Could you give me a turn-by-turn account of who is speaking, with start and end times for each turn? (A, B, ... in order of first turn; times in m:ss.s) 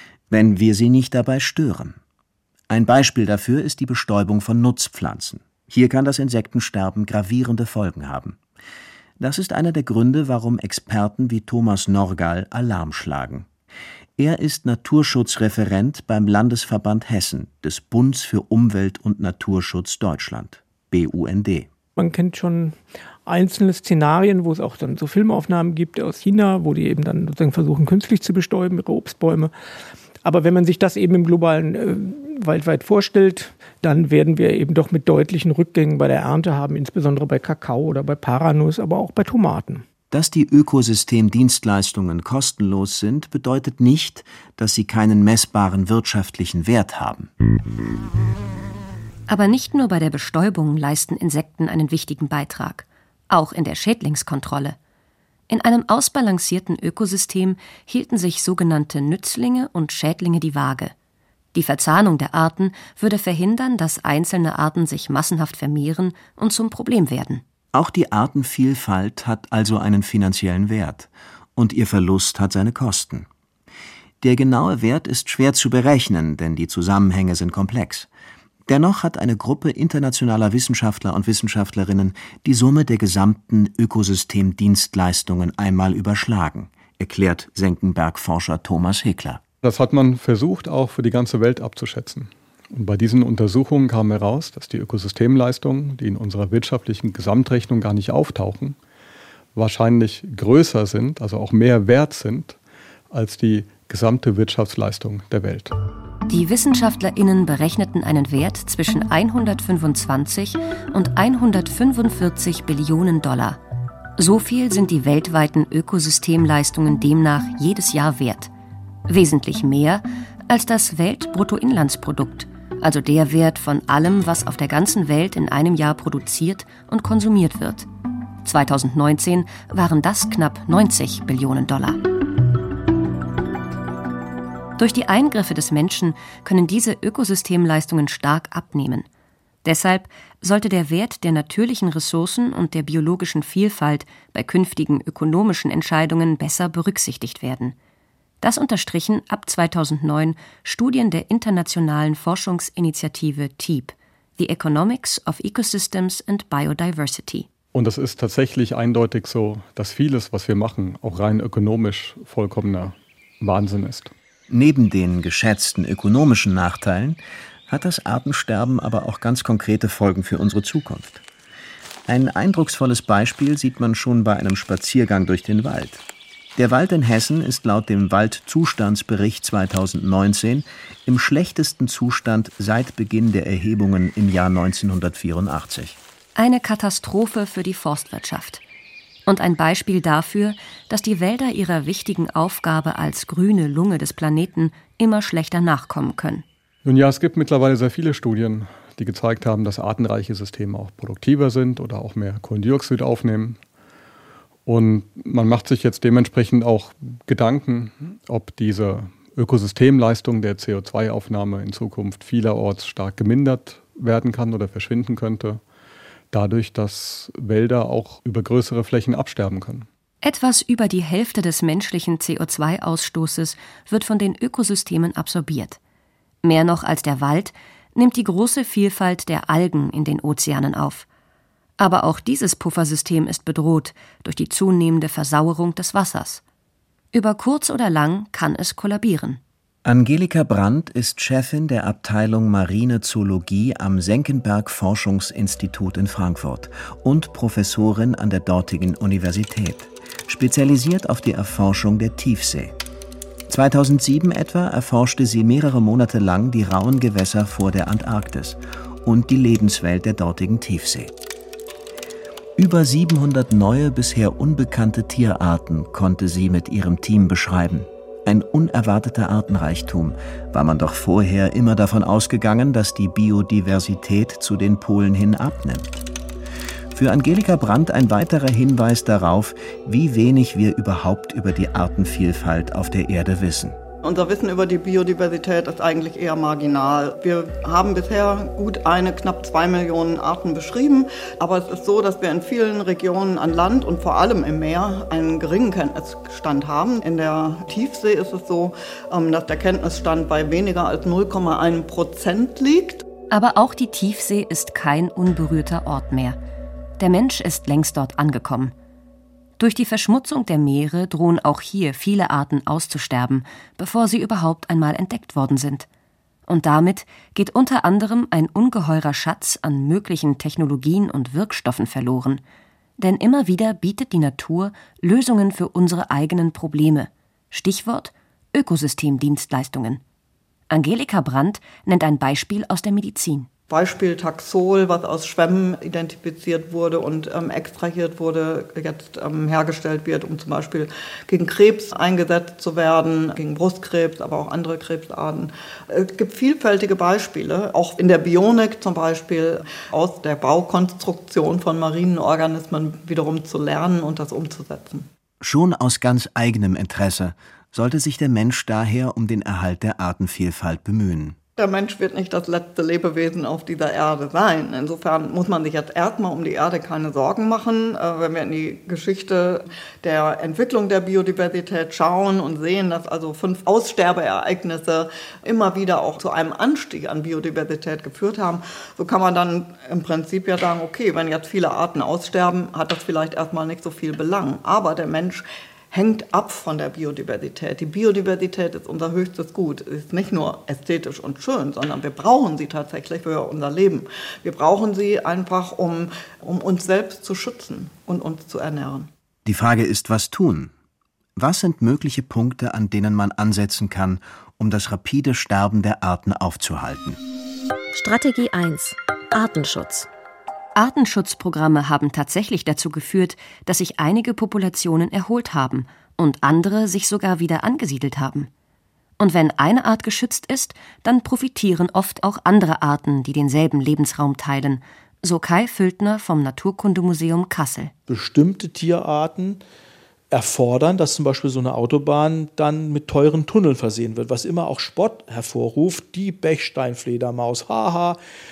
0:00.3-0:02.0 A
0:02.7-0:08.4 A
0:09.2-0:13.5 A
0:14.2-0:21.7 A
0:22.0-0:29.5 B
0:30.2-0:39.8 B
0:40.1-0:47.3 A
0:49.3-0:54.8 C
0:55.5-1:00.9 C
1:01.5-1:07.4 C
1:07.7-1:13.3 A
1:14.2-1:18.1 A
1:18.7-1:29.4 A
1:29.6-1:38.8 D
1:39.6-1:42.6 D
1:43.1-1:45.7 D
1:46.3-1:53.6 C
1:54.2-1:58.5 C
1:59.1-2:07.9 C
2:08.4-2:12.0 C
2:14.8-2:19.1 C
2:19.6-2:27.8 C
2:28.4-2:37.5 C
2:37.7-2:44.1 D
2:44.5-2:51.2 A
2:52.1-2:56.0 A
2:56.6-3:06.0 A
3:06.4-3:08.6 C
3:09.3-3:16.4 C
3:16.8-3:23.6 D
3:24.7-3:35.6 D
3:36.3-3:39.9 D
3:40.2-3:45.8 C
3:46.4-3:51.1 C
3:51.8-3:56.4 C
3:57.1-3:59.4 C
3:59.8-4:12.8 A
4:13.5-4:21.1 A
4:22.6-4:36.0 A
4:36.9-4:43.8 A
4:44.0-5:03.0 E
5:03.3-5:06.4 C
5:07.0-5:08.7 C
5:09.6-5:15.9 C
5:16.5-5:22.4 C
5:23.0-5:30.0 C
5:30.7-5:33.5 C
5:33.7-5:55.1 E
5:55.4-6:01.4 A
6:01.6-6:39.1 E
6:39.4-6:40.7 A
6:41.4-6:47.2 A
6:47.9-6:50.1 F
6:50.8-6:58.5 C
6:59.2-7:07.9 C
7:08.1-7:09.6 G
7:10.3-7:18.2 G